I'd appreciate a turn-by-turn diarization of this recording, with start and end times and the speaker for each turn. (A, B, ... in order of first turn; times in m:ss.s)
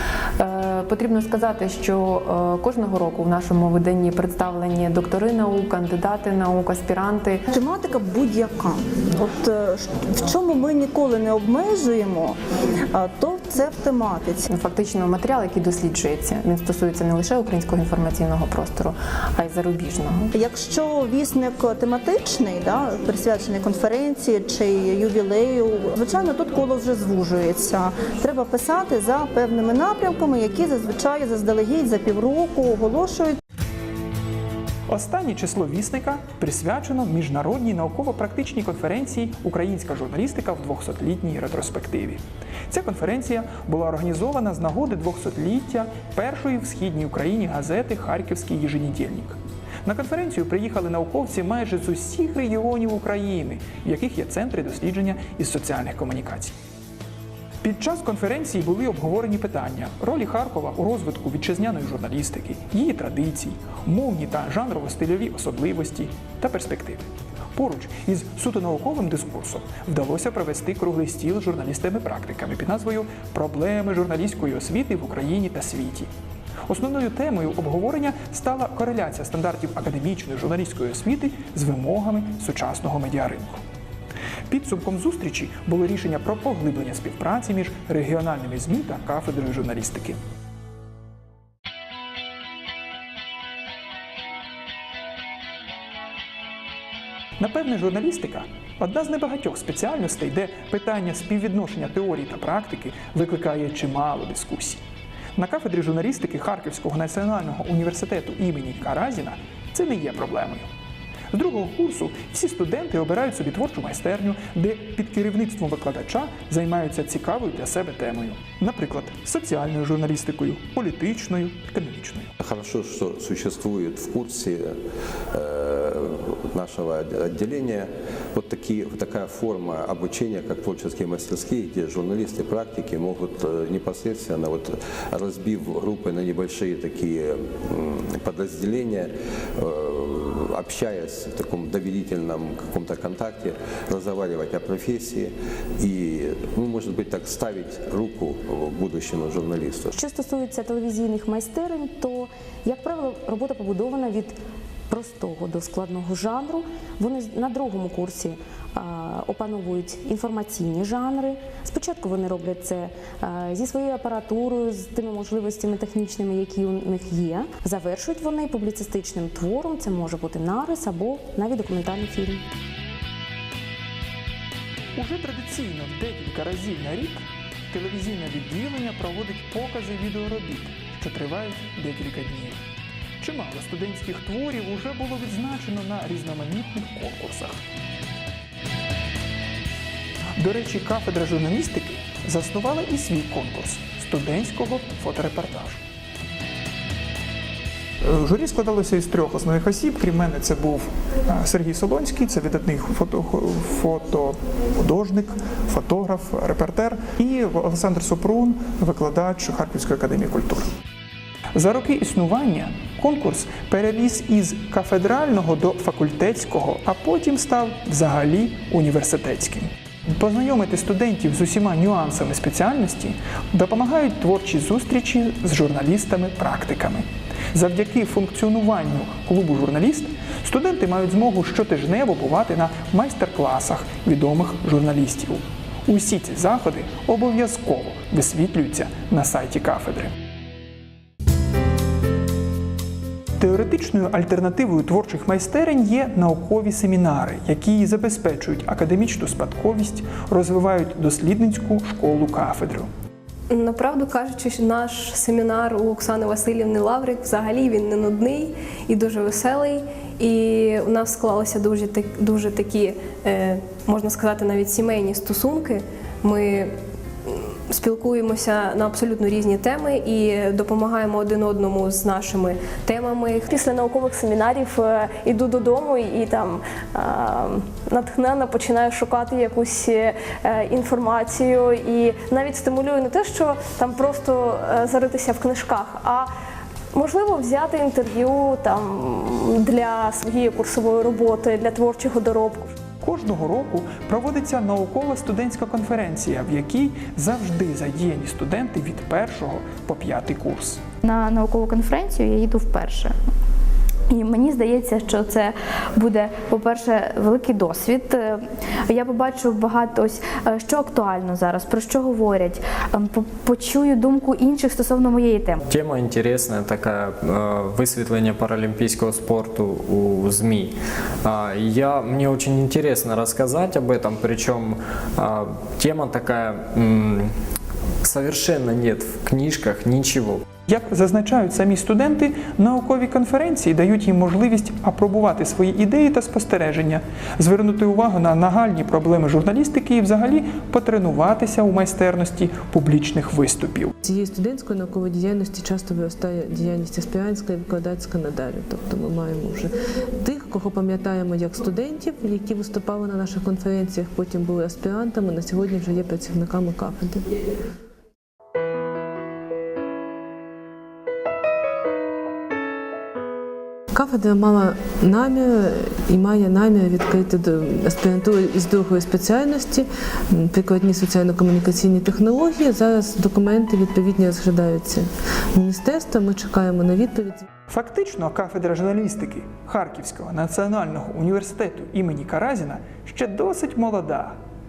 0:00.4-0:07.5 A
0:07.5-0:12.4 B
0:12.9-0:14.5 B
0:14.5-0:20.3 A
0:20.3-0:33.4 B
0:34.9-0:56.6 C
0:57.6-1:16.1 C
1:16.7-1:23.6 C
1:24.5-1:30.2 C
1:37.4-1:44.8 C
1:45.4-1:50.7 C
1:51.3-2:02.3 C
2:02.4-2:04.7 D
2:05.3-2:29.9 D
2:30.0-2:34.4 E
2:34.9-2:52.4 E
2:55.0-3:02.6 C
3:03.2-3:07.6 C
3:10.4-3:15.8 C
3:18.0-3:30.7 C
3:31.6-4:00.1 C
4:03.4-4:12.9 C
4:13.5-4:33.4 F
4:33.4-4:46.3 G
4:46.9-4:52.7 G
4:53.0-5:00.8 C
5:01.0-5:03.1 H
5:04.1-5:15.6 H
5:15.7-5:27.3 I
5:28.0-5:30.4 I
5:30.7-5:43.9 C
5:44.0-5:57.2 J
6:03.9-6:17.5 J
6:17.7-6:24.4 C